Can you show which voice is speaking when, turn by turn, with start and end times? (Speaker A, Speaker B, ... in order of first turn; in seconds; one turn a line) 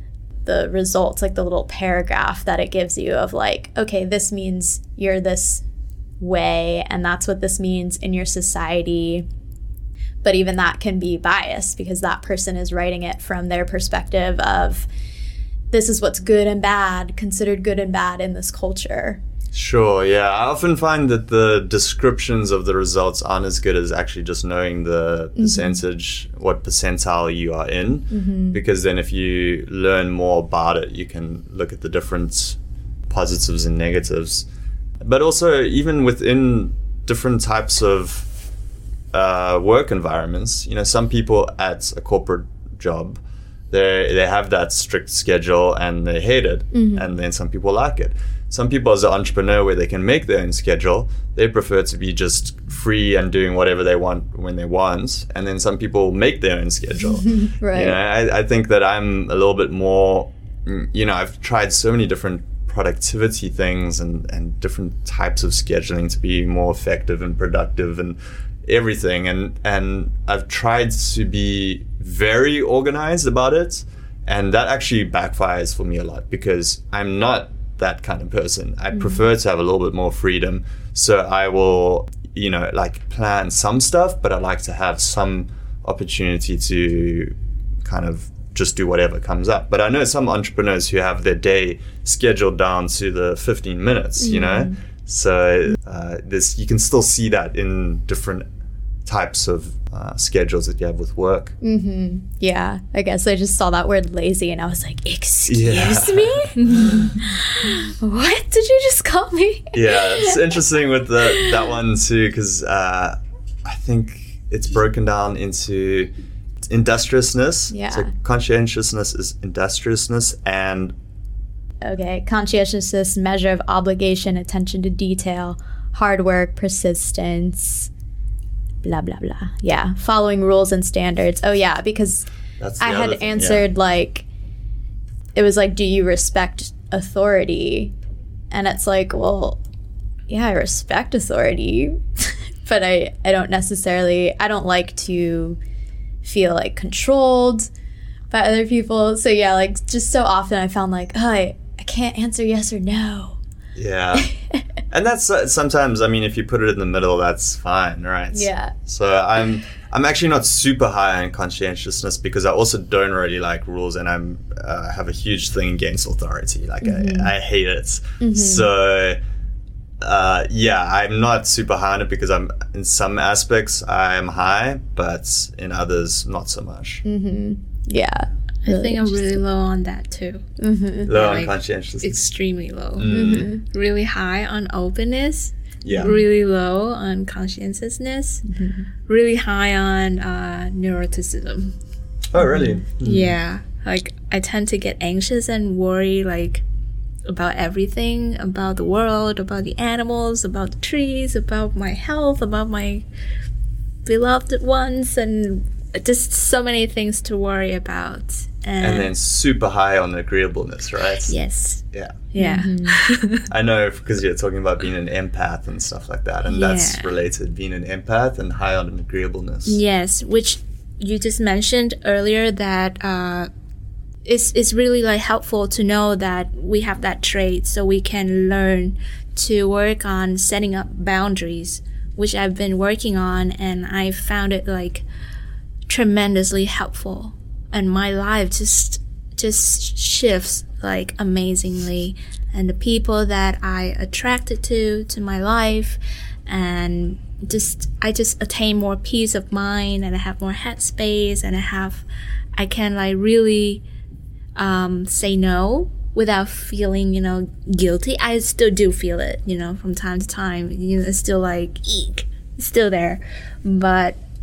Speaker A: 0.4-5.6
Speaker A: 6.2-9.2
Speaker A: 10.2-14.9
Speaker A: 15.7-19.2
Speaker B: 19.5-34.5
Speaker A: 25.4-25.8
Speaker A: 28.1-28.6
Speaker B: 35.0-38.3
Speaker B: 39.1-98.5
Speaker A: 46.7-47.0
Speaker A: 57.2-58.0
Speaker A: 78.9-79.2
Speaker A: 94.2-94.8
Speaker B: 99.0-101.5
Speaker A: 101.6-110.4
Speaker B: 105.5-107.1
Speaker C: 106.6-107.0
Speaker B: 109.7-120.9
Speaker A: 111.2-111.5
Speaker A: 117.7-118.1
Speaker A: 121.8-127.9
Speaker A: 128.8-132.3
Speaker B: 132.6-133.6
Speaker A: 132.8-134.2
Speaker A: 135.3-137.9
Speaker A: 138.5-139.6
Speaker A: 140.3-145.6
Speaker A: 146.2-147.7
Speaker A: 148.3-153.4
Speaker B: 153.8-154.3
Speaker A: 154.2-154.6
Speaker B: 154.9-169.2
Speaker A: 158.3-158.7
Speaker A: 166.8-167.3
Speaker A: 168.2-168.7
Speaker B: 170.0-177.0
Speaker A: 177.0-179.3
Speaker C: 178.6-180.4
Speaker A: 180.6-181.2
Speaker B: 181.1-182.3
Speaker C: 181.1-188.4
Speaker B: 182.9-183.5
Speaker A: 183.1-183.6
Speaker B: 185.8-186.2
Speaker A: 185.9-186.2
Speaker A: 188.5-188.8
Speaker C: 189.1-191.8
Speaker B: 192.3-193.4
Speaker A: 192.4-192.8
Speaker C: 193.0-196.6
Speaker C: 197.2-203.0
Speaker C: 204.0-209.1
Speaker B: 208.8-211.3
Speaker C: 211.3-213.4
Speaker B: 211.9-212.2
Speaker A: 212.4-213.0
Speaker B: 213.5-219.8
Speaker C: 216.5-217.1
Speaker C: 219.7-223.5
Speaker C: 224.2-235.0
Speaker C: 235.9-252.0
Speaker C: 252.6-253.8
Speaker C: 254.6-264.2